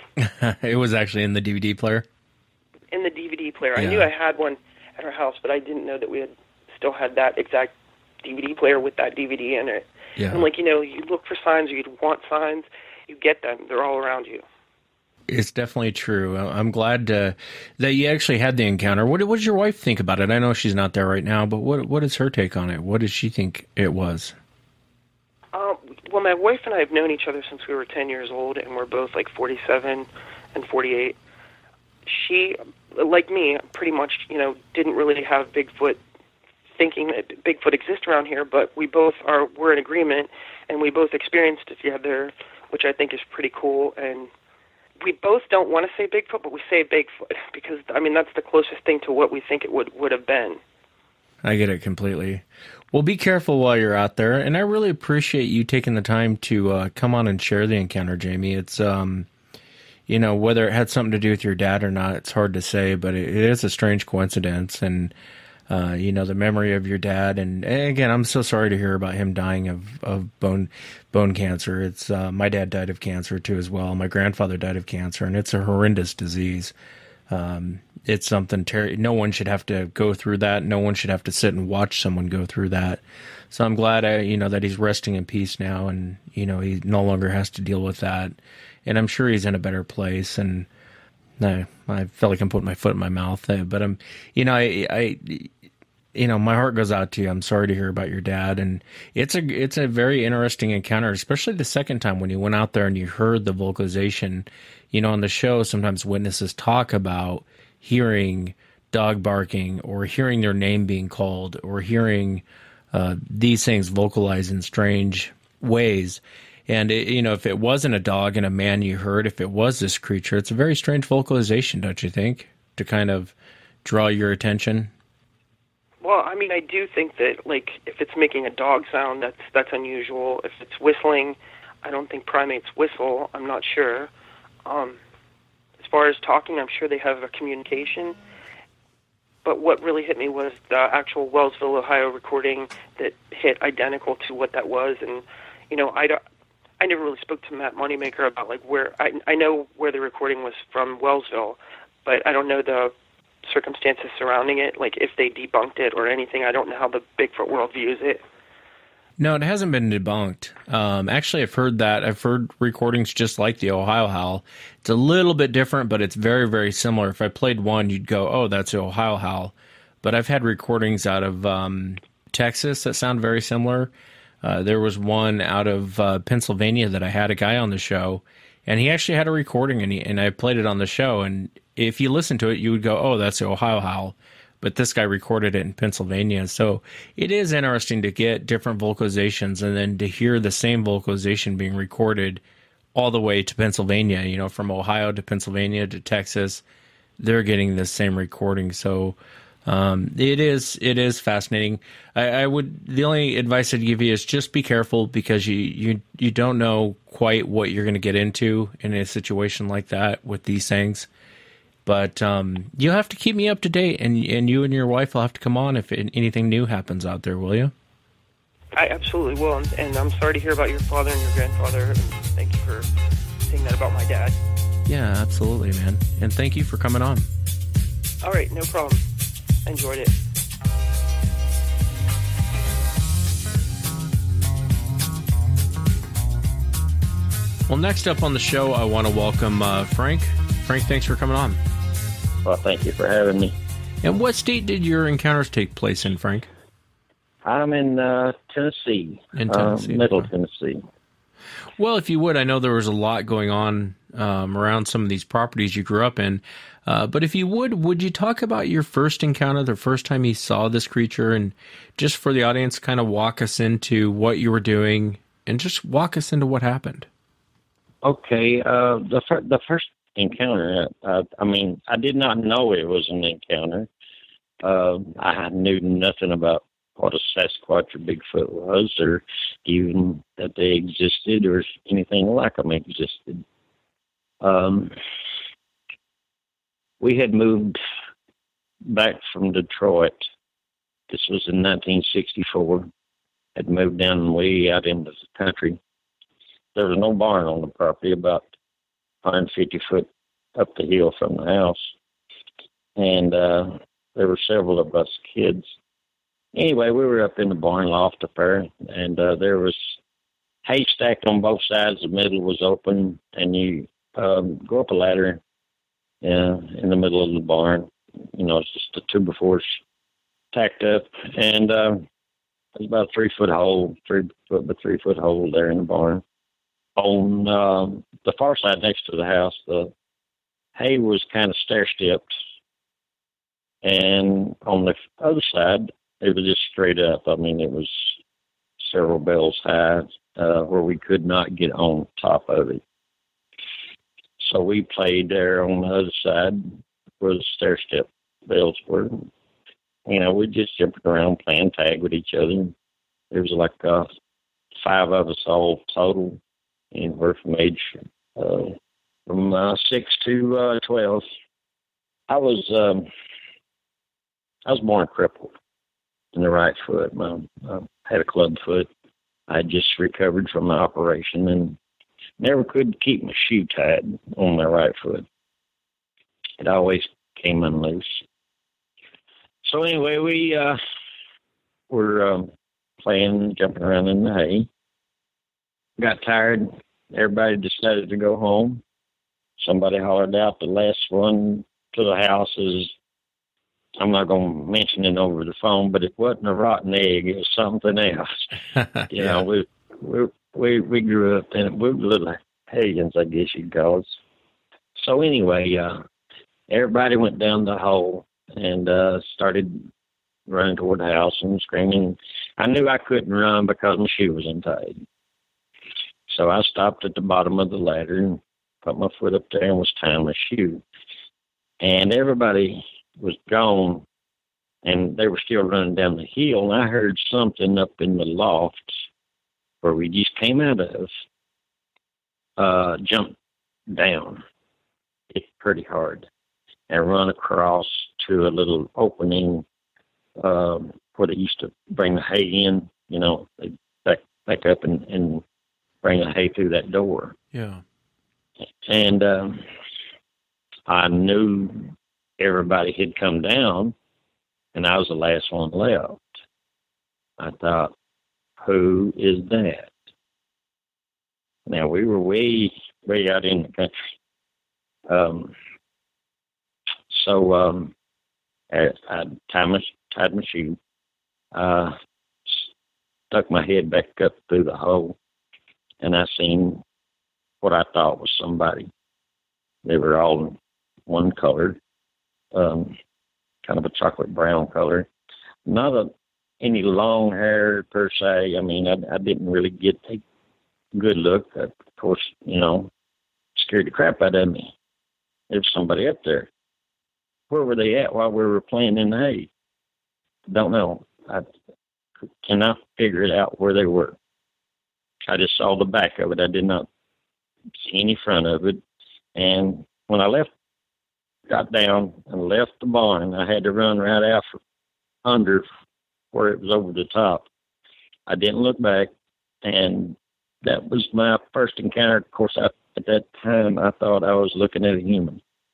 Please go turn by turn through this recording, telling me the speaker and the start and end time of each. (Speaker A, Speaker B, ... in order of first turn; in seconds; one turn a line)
Speaker A: 0.2-2.0
Speaker B: 2.9-14.4
Speaker A: 3.8-4.1
Speaker A: 10.2-10.5
Speaker A: 15.3-24.3
Speaker B: 25.5-31.1
Speaker B: 32.0-36.0
Speaker B: 36.8-44.3
Speaker B: 45.0-50.6
Speaker A: 51.4-59.3
Speaker A: 60.1-65.1
Speaker A: 65.7-76.7
Speaker A: 77.3-90.7
Speaker A: 91.4-95.5
Speaker A: 96.1-124.9
Speaker B: 126.0-134.1
Speaker B: 134.7-135.0
Speaker B: 135.8-138.2
Speaker B: 139.4-146.2
Speaker B: 146.8-152.9
Speaker B: 153.4-158.2
Speaker A: 159.2-173.9
Speaker A: 174.4-192.4
Speaker A: 192.9-196.6
Speaker A: 197.2-211.1
Speaker A: 211.8-217.7
Speaker B: 218.7-222.9
Speaker B: 223.5-224.3
Speaker A: 224.9-227.3
Speaker B: 228.2-229.0
Speaker B: 229.7-230.2
Speaker A: 237.7-241.6
Speaker C: 242.4-243.5
Speaker A: 244.0-246.5
Speaker C: 247.4-250.8
Speaker A: 249.3-250.3
Speaker A: 251.8-267.1
Speaker C: 268.0-273.9
Speaker C: 274.6-283.4
Speaker C: 284.4-284.9
Speaker C: 287.0-287.8
Speaker C: 288.9-290.3
Speaker C: 291.1-292.9
Speaker C: 293.6-295.8
Speaker C: 296.7-298.5
Speaker C: 299.2-301.9
Speaker C: 302.9-305.7
Speaker C: 306.5-310.0
Speaker C: 310.6-315.4
Speaker C: 316.2-319.8
Speaker C: 320.5-322.0
Speaker C: 322.7-326.2
Speaker C: 326.9-329.9
Speaker C: 330.8-332.3
Speaker C: 333.8-338.2
Speaker C: 338.8-342.8
Speaker C: 344.4-349.3
Speaker C: 350.1-352.7
Speaker C: 353.3-354.1
Speaker C: 354.8-356.4
Speaker C: 356.9-361.3
Speaker C: 362.3-363.1
Speaker C: 364.6-365.5
Speaker C: 366.3-368.9
Speaker C: 369.5-371.8
Speaker C: 372.4-375.2
Speaker C: 376.6-378.2
Speaker C: 379.6-380.8
Speaker C: 381.9-384.7
Speaker C: 386.0-388.8
Speaker C: 389.6-392.9
Speaker C: 394.0-398.5
Speaker A: 398.8-399.1
Speaker C: 399.1-404.2
Speaker C: 404.9-406.0
Speaker C: 406.7-409.9
Speaker C: 410.5-415.0
Speaker C: 416.3-420.8
Speaker C: 421.8-424.0
Speaker C: 424.8-429.0
Speaker C: 429.8-431.1
Speaker C: 432.6-433.3
Speaker C: 433.9-434.4
Speaker C: 435.3-436.3
Speaker C: 436.9-439.6
Speaker C: 440.4-445.4
Speaker C: 446.0-447.3
Speaker A: 447.5-447.8
Speaker C: 448.8-449.6
Speaker C: 450.9-453.9
Speaker C: 454.7-456.2
Speaker C: 457.4-457.9
Speaker C: 458.6-459.9
Speaker C: 461.6-464.1
Speaker C: 465.1-465.5
Speaker C: 467.1-467.9
Speaker C: 468.7-470.8
Speaker C: 471.5-471.9
Speaker C: 473.3-475.1
Speaker C: 476.0-476.8
Speaker C: 477.6-478.9
Speaker C: 479.8-481.8
Speaker C: 482.5-482.9
Speaker C: 483.6-485.1
Speaker C: 485.6-490.2
Speaker C: 490.9-492.9
Speaker C: 493.5-494.7
Speaker C: 495.5-496.5
Speaker C: 497.5-499.5
Speaker C: 500.5-501.5
Speaker C: 502.4-504.2
Speaker C: 505.2-506.9
Speaker C: 507.8-508.8
Speaker C: 509.3-510.5
Speaker C: 511.5-514.6
Speaker C: 515.2-515.6
Speaker C: 516.3-517.5
Speaker C: 518.3-519.1
Speaker C: 519.6-525.4